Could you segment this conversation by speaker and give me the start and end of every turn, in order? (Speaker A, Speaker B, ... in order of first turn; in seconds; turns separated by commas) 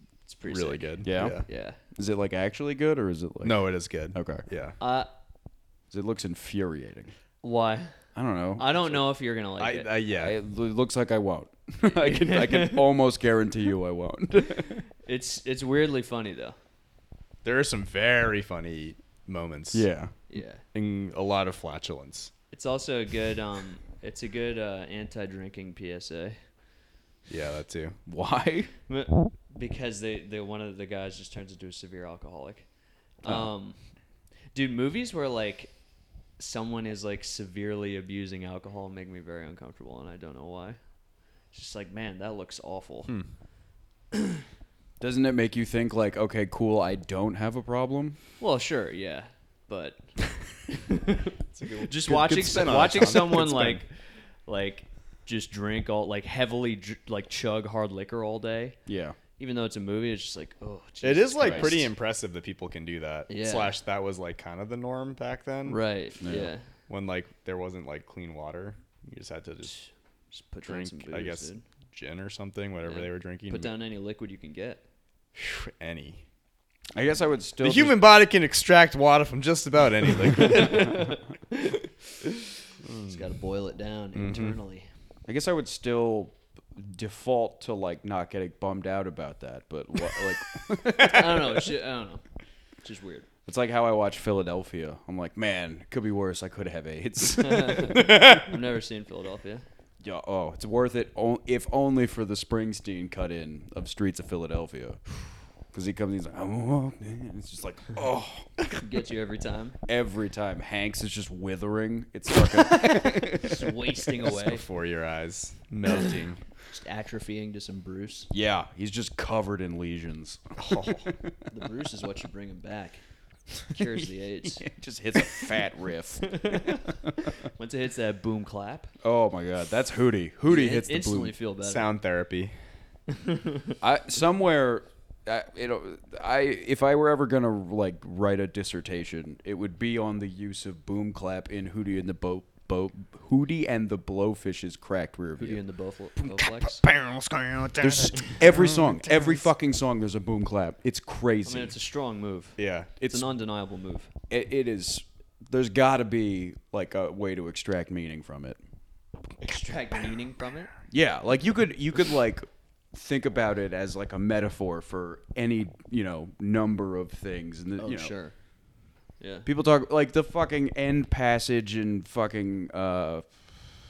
Speaker A: 0.3-1.8, Speaker B: 0.5-1.5, Speaker C: 1.0-4.4, Speaker B: 3.4-4.8, Speaker A: 4.8-5.1, Speaker C: 5.9-7.1, Speaker A: 7.4-7.9, Speaker C: 8.2-8.7, Speaker A: 8.6-9.9, Speaker B: 9.6-10.4, Speaker C: 10.1-14.8, Speaker A: 11.8-12.9, Speaker A: 15.0-16.6, Speaker B: 17.4-19.9, Speaker C: 19.7-20.1, Speaker A: 20.3-20.6, Speaker B: 20.7-22.3, Speaker A: 22.5-26.4, Speaker B: 27.3-28.0, Speaker C: 28.1-28.7, Speaker A: 28.9-32.7, Speaker A: 33.2-33.8, Speaker A: 34.5-35.7, Speaker A: 36.4-40.8, Speaker A: 41.5-43.1, Speaker A: 44.1-44.4, Speaker C: 45.0-48.2, Speaker A: 48.4-50.0, Speaker A: 50.7-53.9, Speaker B: 51.5-53.8, Speaker A: 54.5-58.8, Speaker C: 58.9-59.2, Speaker A: 59.4-61.9, Speaker B: 61.0-65.8, Speaker C: 61.4-61.8, Speaker A: 63.3-63.8, Speaker A: 65.7-66.6, Speaker C: 66.2-66.5, Speaker B: 66.9-69.8, Speaker A: 69.7-71.6, Speaker B: 70.7-73.8, Speaker A: 72.8-74.8, Speaker B: 75.3-76.2, Speaker C: 77.0-78.1, Speaker B: 77.6-81.0, Speaker A: 80.4-84.9, Speaker B: 82.8-83.2, Speaker B: 84.2-84.6, Speaker C: 85.3-91.6, Speaker A: 91.0-92.2, Speaker A: 92.8-93.3, Speaker C: 93.5-98.5, Speaker A: 97.4-99.7, Speaker C: 100.0-105.0, Speaker C: 105.7-108.5, Speaker A: 108.8-109.8, Speaker C: 109.9-113.9, Speaker A: 112.7-114.6, Speaker B: 114.2-116.4, Speaker A: 116.7-118.3, Speaker C: 118.3-121.3, Speaker B: 120.6-121.1, Speaker A: 121.5-123.0, Speaker A: 123.7-124.7, Speaker C: 123.8-126.9, Speaker A: 126.2-128.9, Speaker C: 129.0-131.3, Speaker A: 130.5-131.9, Speaker B: 131.6-132.5, Speaker A: 133.1-133.8, Speaker C: 133.8-145.6, Speaker A: 145.4-146.8, Speaker C: 146.2-146.8, Speaker B: 146.9-149.1, Speaker C: 147.8-151.7, Speaker A: 151.4-154.1, Speaker B: 152.6-152.9, Speaker C: 153.0-153.3, Speaker C: 154.3-158.6, Speaker A: 159.4-160.7, Speaker C: 160.9-168.1, Speaker A: 167.8-168.3, Speaker A: 169.2-169.5, Speaker C: 169.5-173.3